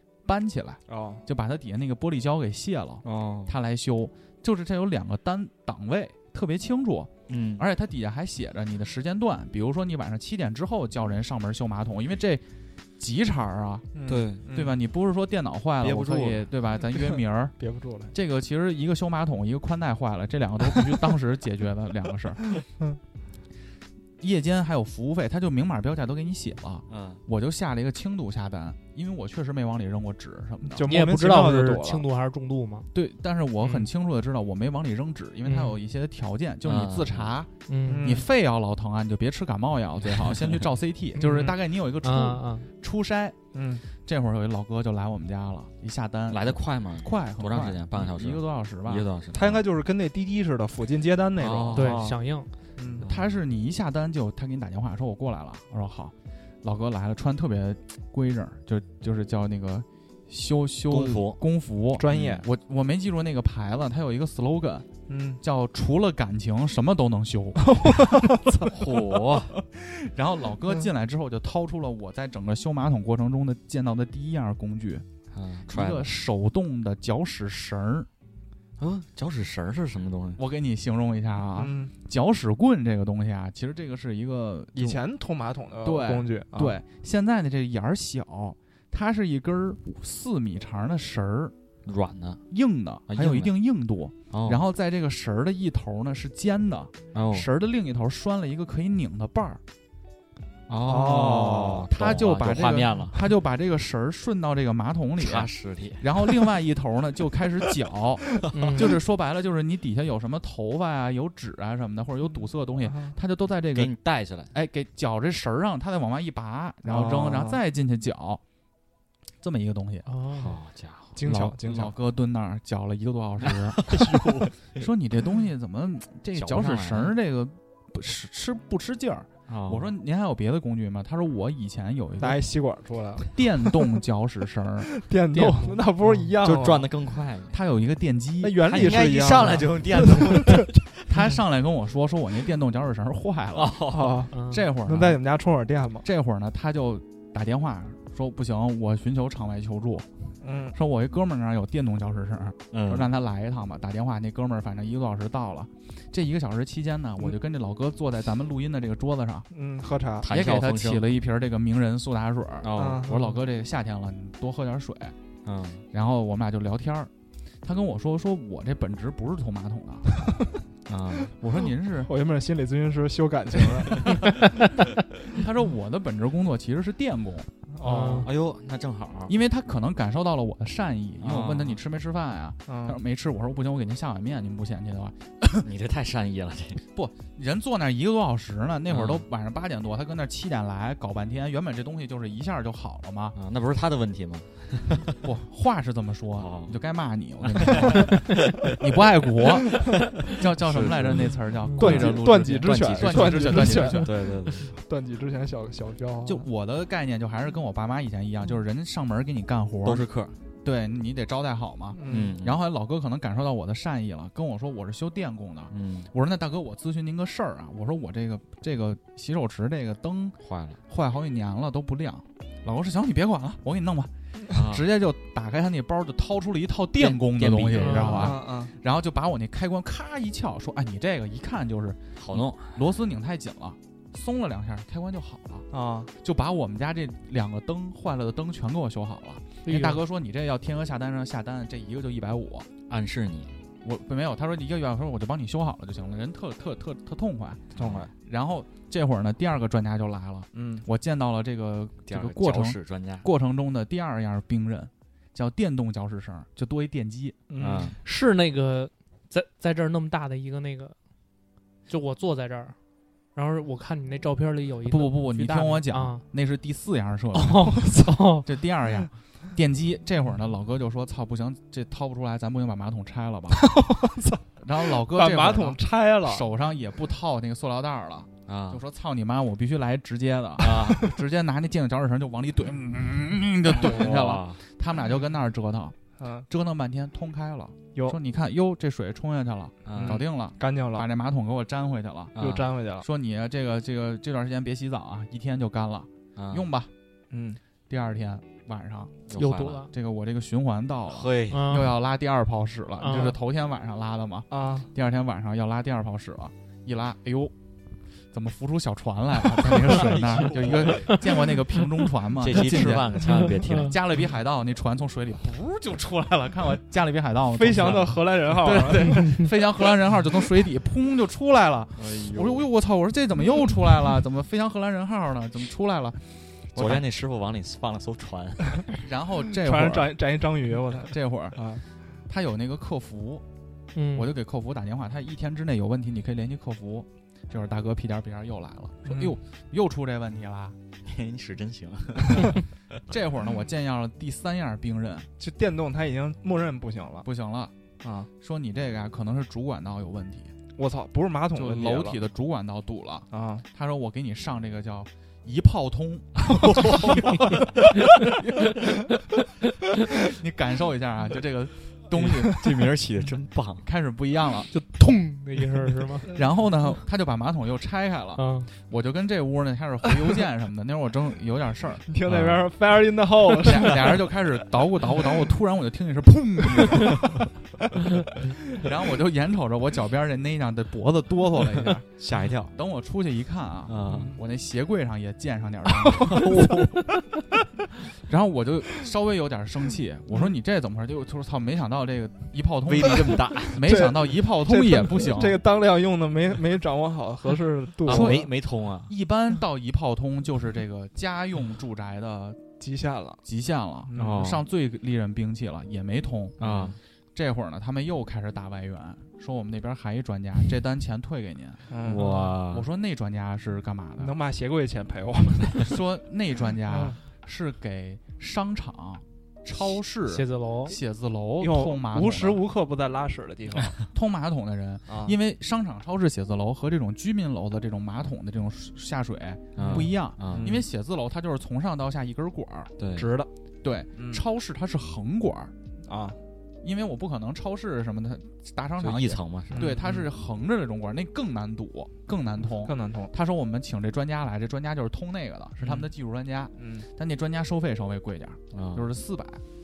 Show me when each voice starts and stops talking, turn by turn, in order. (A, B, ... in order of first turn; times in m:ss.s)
0:00.2-0:12.5 A
0:00.9-0:01.2 B
0:03.0-0:03.6 C
0:07.3-0:07.7 C
0:13.0-0:13.9 A
0:13.9-0:14.8 B
0:14.1-0:14.4 C
0:14.5-0:17.6 A
0:15.8-0:16.4 C
0:17.6-0:18.1 B
0:18.1-0:22.4 A
0:24.2-0:30.9 A
0:26.9-0:27.2 C
0:30.6-0:32.1 B
0:30.8-0:32.9 D
0:32.9-0:37.5 A
0:35.4-0:35.8 D
0:36.6-0:37.3 C
0:37.7-0:38.1 D
0:37.9-0:38.3 B
0:38.0-0:49.1 A
0:40.2-0:40.6 C
0:41.2-0:42.7 D
0:43.5-0:43.8 B
0:46.3-0:49.6 C
0:49.3-0:52.2 B
0:51.4-0:52.0 C
0:51.8-0:52.5 D
0:52.8-0:53.1 B
0:53.0-1:08.3 A
1:00.9-1:01.4 C
1:02.0-1:02.5 B
1:02.1-1:02.4 C
1:05.1-1:05.4 B
1:07.7-1:08.7 B
1:08.7-1:09.6 C
1:09.5-1:15.1 A
1:15.3-1:16.1 C
1:15.7-1:18.1 A
1:18.8-1:20.4 C
1:20.4-1:25.0 A
1:21.6-1:21.9 B
1:24.7-1:26.8 B
1:25.8-1:31.5 A
1:31.8-1:32.4 C
1:32.5-1:39.6 A
1:33.1-1:33.5 C
1:34.3-1:34.6 C
1:37.1-1:37.5 C
1:40.7-1:43.3 C
1:40.9-1:41.9 B
1:41.9-1:53.9 A
1:45.2-1:46.1 C
1:48.5-1:48.9 D
1:53.8-1:54.6 C
1:54.5-1:58.4 A
1:56.9-1:57.6 B
1:59.4-2:00.1 A
2:00.1-2:00.5 D
2:00.4-2:01.2 C
2:01.2-2:01.9 B
2:01.2-2:03.9 A
2:03.4-2:04.8 C
2:04.8-2:12.4 A
2:06.4-2:07.1 C
2:09.5-2:09.9 C
2:12.2-2:13.4 B
2:13.2-2:14.9 A
2:14.9-2:16.9 B
2:15.3-2:16.3 D
2:16.4-2:17.6 C
2:17.5-2:19.3 A
2:18.4-2:20.6 B
2:18.7-2:21.2 C
2:21.1-2:23.8 A
2:23.5-2:24.2 C
2:23.9-2:26.1 B
2:24.3-2:24.6 D
2:24.5-2:25.2 A
2:26.0-2:30.1 A
2:30.4-2:30.8 B
2:30.7-2:39.5 A
2:32.7-2:33.1 C
2:39.5-2:40.3 B
2:40.2-2:41.0 C
2:40.3-2:45.2 A
2:42.6-2:43.1 C
2:42.8-2:43.3 B
2:45.4-2:45.8 C
2:45.9-2:47.1 A
2:47.6-2:50.2 A
2:50.9-2:51.3 C
2:51.4-2:52.1 A
2:52.0-2:54.2 B
2:55.3-2:57.5 A
2:57.8-2:58.3 B
2:57.8-2:58.3 D
2:58.0-2:59.3 C
2:59.3-3:05.6 A
3:01.2-3:01.8 C
3:02.7-3:03.0 B
3:05.6-3:06.8 C
3:06.9-3:13.4 A
3:08.9-3:09.2 C
3:13.4-3:15.1 C
3:15.2-3:19.8 A
3:16.4-3:16.8 C
3:17.4-3:18.3 C
3:20.4-3:24.1 A
3:20.5-3:24.7 C
3:21.8-3:26.4 B
3:26.3-3:30.1 A
3:29.8-3:30.4 C
3:30.6-3:40.4 A
3:32.0-3:32.4 B
3:32.1-3:32.6 C
3:35.7-3:36.1 C
3:40.4-3:40.8 C
3:40.9-3:55.7 A
3:44.5-3:44.9 C
3:47.0-3:48.3 C
3:47.8-3:48.3 D
3:48.1-3:48.7 B
3:52.2-3:52.8 C
3:55.7-3:56.1 B
3:56.2-4:02.7 A
3:59.6-4:00.0 D
4:02.9-4:03.5 C
4:03.8-4:17.4 A
4:07.8-4:08.1 C
4:07.8-4:08.1 B
4:10.5-4:10.9 B
4:12.1-4:13.3 C
4:17.5-4:18.0 B
4:17.6-4:18.0 C
4:18.0-4:21.0 D
4:21.9-4:22.8 D
4:23.3-4:26.2 D
4:24.9-4:27.8 A
4:27.4-4:28.5 D
4:27.9-4:28.2 B
4:28.4-4:33.8 A
4:33.5-4:36.5 B
4:34.6-4:52.3 A
4:38.5-4:38.8 C
4:40.6-4:41.0 C
4:43.7-4:44.6 C
4:46.2-4:46.5 B
4:49.8-4:50.2 C
4:50.0-4:51.1 B
4:52.4-4:52.7 C
4:52.4-4:53.1 B
4:53.0-4:56.9 A
4:56.4-4:56.6 C
4:57.3-4:57.6 B
4:57.9-5:07.5 A
4:59.3-4:59.8 C
4:59.4-4:59.9 D
5:01.1-5:01.8 C
5:01.5-5:01.9 D
5:03.0-5:03.3 D
5:04.5-5:04.9 B
5:08.3-5:27.0 A
5:09.8-5:11.2 C
5:12.4-5:14.0 C
5:17.5-5:19.4 B
5:22.0-5:22.7 C
5:26.8-5:29.0 C
5:29.0-5:30.2 A
5:29.6-5:31.8 B
5:31.0-5:31.7 A
5:32.3-5:33.4 A
5:34.0-5:34.3 D
5:34.1-5:40.8 A
5:39.0-5:39.4 B
5:41.1-5:42.6 C
5:43.1-5:45.3 A
5:45.4-5:47.3 B
5:47.2-5:47.7 A
5:48.0-5:48.3 B
5:48.4-5:50.6 A
5:50.8-5:52.2 B
5:51.6-5:57.4 A
5:53.3-5:53.6 B
5:56.6-5:57.4 C
6:00.2-6:02.6 A
6:02.1-6:03.8 C
6:03.8-6:04.7 A
6:04.7-6:06.3 D
6:06.3-6:12.1 A
6:08.4-6:08.7 D
6:12.1-6:14.3 B
6:12.3-6:12.7 C
6:13.6-6:17.4 A
6:18.8-6:22.2 A
6:22.2-6:22.7 C
6:22.7-6:26.5 A
6:23.9-6:24.4 C
6:24.1-6:24.4 B
6:26.4-6:26.9 C
6:26.4-6:26.7 B
6:28.2-6:35.6 A
6:32.9-6:33.8 C
6:33.8-6:38.4 B
6:38.0-6:39.1 C
6:38.1-6:38.5 A
6:39.1-6:42.6 A
6:42.8-6:43.4 B
6:43.4-6:46.7 A
6:44.1-6:44.5 B
6:44.2-6:44.6 C
6:46.6-6:47.0 C
6:46.7-6:47.0 B
6:47.4-6:51.9 A
6:51.9-6:52.3 B
6:52.0-6:52.9 C
6:52.2-6:52.5 D
6:52.7-6:54.3 A
6:54.2-6:55.9 B
6:55.9-7:02.6 A
6:56.9-6:57.2 B
7:00.3-7:01.0 D
7:01.6-7:04.0 B
7:04.1-7:13.0 A
7:05.1-7:05.4 B
7:09.8-7:10.7 C
7:09.8-7:10.8 B
7:13.0-7:13.3 C
7:13.2-7:13.5 B
7:13.8-7:15.7 A
7:14.2-7:14.4 B
7:16.0-7:16.4 B
7:16.8-7:29.6 A
7:19.0-7:20.0 C
7:19.7-7:20.3 B
7:22.7-7:23.3 B
7:26.8-7:27.1 B
7:28.7-7:29.1 C